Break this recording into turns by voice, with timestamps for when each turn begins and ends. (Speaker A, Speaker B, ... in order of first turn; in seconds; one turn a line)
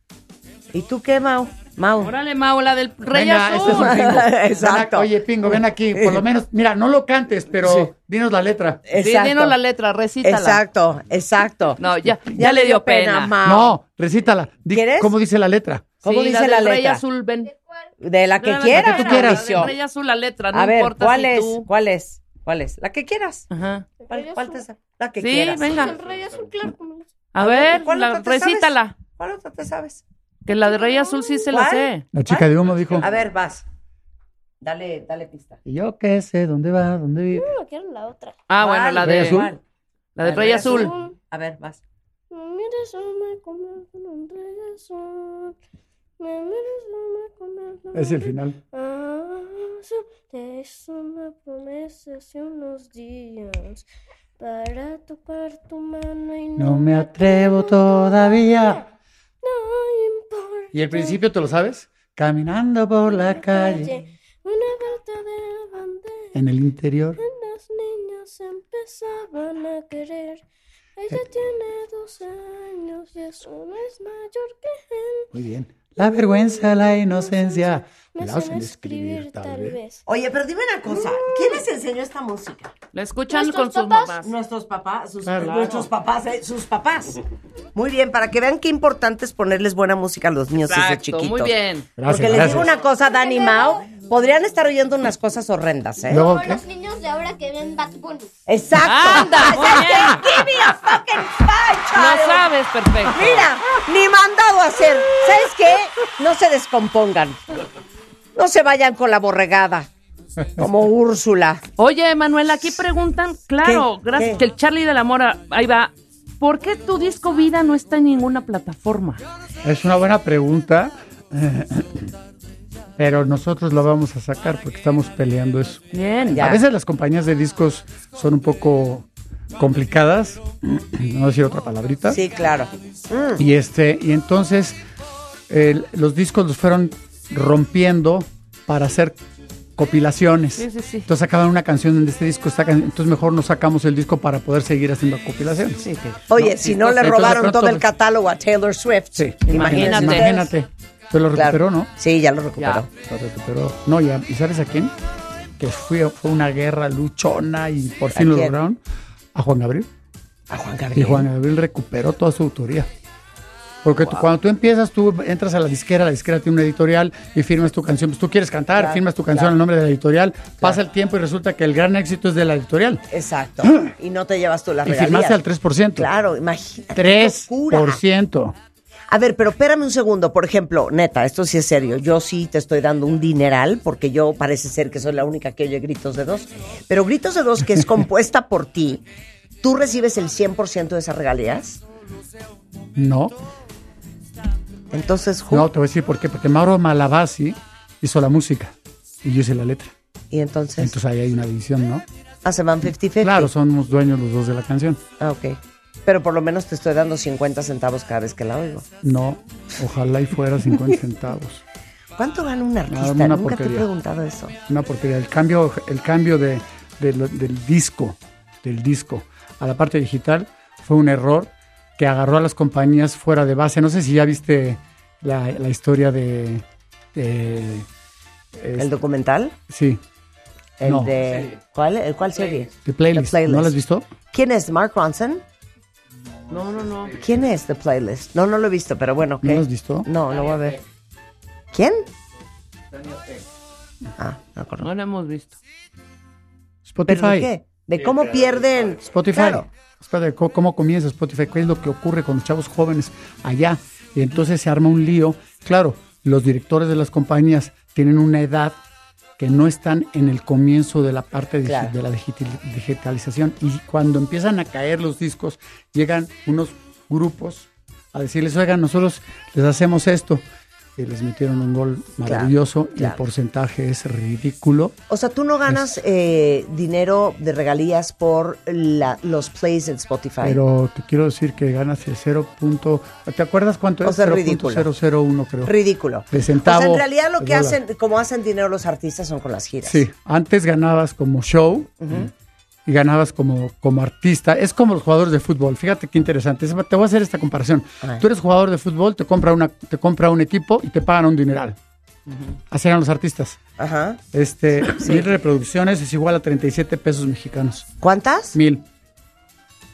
Speaker A: 0.7-2.1
Speaker B: 2.0-4.1
Speaker C: 3.1-8.8
Speaker A: 3.6-6.2
Speaker A: 8.9-9.6
Speaker B: 8.9-10.6
Speaker A: 10.2-13.8
Speaker B: 11.8-13.3
Speaker C: 13.4-15.9
Speaker A: 14.7-15.1
Speaker A: 16.0-17.0
Speaker B: 16.0-17.5
Speaker A: 18.0-19.7
Speaker B: 18.4-21.7
Speaker C: 18.7-19.7
Speaker A: 20.5-23.5
Speaker B: 23.5-23.9
Speaker D: 24.0-24.6
Speaker A: 24.1-25.9
Speaker B: 25.2-26.0
Speaker D: 25.8-27.3
Speaker B: 27.3-28.9
Speaker A: 27.4-30.0
Speaker B: 30.4-32.0
Speaker D: 30.6-31.5
Speaker A: 31.5-33.6
Speaker C: 32.1-33.1
Speaker A: 34.6-35.6
Speaker C: 35.6-37.5
Speaker D: 37.3-38.4
Speaker B: 38.5-39.5
Speaker A: 38.6-39.6
Speaker C: 39.0-39.5
Speaker B: 40.2-40.9
Speaker A: 40.2-41.8
Speaker D: 40.4-41.1
Speaker D: 42.3-45.6
Speaker D: 46.2-53.9
Speaker C: 47.9-48.6
Speaker D: 54.4-58.9
Speaker C: 56.6-58.8
Speaker D: 59.4-61.2
Speaker C: 60.7-64.0
Speaker D: 63.1-66.4
Speaker C: 66.3-67.2
Speaker D: 67.2-70.4
Speaker D: 71.0-75.3
Speaker C: 75.3-79.8
Speaker D: 76.0-80.0
Speaker A: 80.0-82.7
Speaker D: 80.9-81.6
Speaker B: 82.9-84.3
Speaker D: 83.3-84.2
Speaker A: 84.2-87.2
Speaker C: 85.2-85.8
Speaker B: 85.4-85.8
Speaker A: 87.7-96.3
Speaker B: 90.6-91.9
Speaker C: 92.0-92.7
Speaker D: 93.3-93.8
Speaker C: 96.1-96.6
Speaker D: 96.5-98.3
Speaker A: 98.5-102.5
Speaker B: 98.8-100.4
Speaker B: 101.9-103.5
Speaker A: 103.0-107.4
Speaker A: 108.3-109.9
Speaker A: 110.6-111.6
Speaker B: 111.8-119.2
Speaker A: 113.6-114.4
Speaker C: 119.6-122.1
Speaker C: 123.0-132.2
Speaker B: 125.9-126.6
Speaker A: 126.3-126.6
Speaker A: 132.1-133.4
Speaker C: 133.4-134.8
Speaker C: 135.5-139.2
Speaker C: 139.8-145.8
Speaker B: 140.6-141.1
Speaker B: 145.8-147.3
Speaker A: 146.3-150.5
Speaker C: 146.8-147.9
Speaker C: 149.2-151.9
Speaker B: 149.5-150.4
Speaker A: 151.3-152.9
Speaker B: 152.6-152.8
Speaker C: 152.9-154.9
Speaker C: 155.6-158.8
Speaker A: 158.1-158.6
Speaker C: 159.3-159.9
Speaker A: 160.5-161.3
Speaker C: 160.9-162.9
Speaker C: 163.8-173.0
Speaker A: 168.8-169.5
Speaker A: 173.1-175.4
Speaker C: 173.6-173.9
Speaker C: 174.8-176.1
Speaker A: 175.9-178.0
Speaker C: 176.9-178.6
Speaker A: 179.1-189.0
Speaker A: 189.6-191.8
Speaker C: 192.9-193.4
Speaker A: 194.9-195.7
Speaker C: 195.5-199.9
Speaker A: 200.3-200.9
Speaker C: 200.8-202.0
Speaker A: 202.4-203.5
Speaker C: 203.2-205.0
Speaker A: 205.2-208.8
Speaker C: 209.0-211.6
Speaker A: 212.2-214.5
Speaker C: 212.9-213.9
Speaker C: 214.7-227.9
Speaker C: 228.6-228.9
Speaker A: 228.8-229.5
Speaker C: 229.7-230.0
Speaker A: 230.8-233.7
Speaker C: 230.8-231.3
Speaker C: 232.8-234.1
Speaker A: 234.3-235.4
Speaker B: 236.5-237.2
Speaker A: 237.2-240.8
Speaker C: 239.4-240.1
Speaker A: 241.7-242.1
Speaker A: 244.2-244.9
Speaker B: 244.8-245.6
Speaker C: 246.8-247.5
Speaker A: 247.1-249.7
Speaker C: 248.9-258.8
Speaker C: 259.4-270.4
Speaker A: 261.6-261.9
Speaker C: 270.9-274.9
Speaker A: 272.2-273.2
Speaker A: 275.1-280.6
Speaker C: 280.4-285.7
Speaker A: 284.0-284.9
Speaker A: 285.6-290.0
Speaker C: 286.3-287.8
Speaker C: 289.8-292.3
Speaker A: 292.0-292.3
Speaker C: 292.9-301.8
Speaker C: 302.7-303.6
Speaker A: 303.8-304.2
Speaker C: 304.3-307.9
Speaker A: 304.8-305.3
Speaker A: 308.0-308.6
Speaker C: 308.5-308.8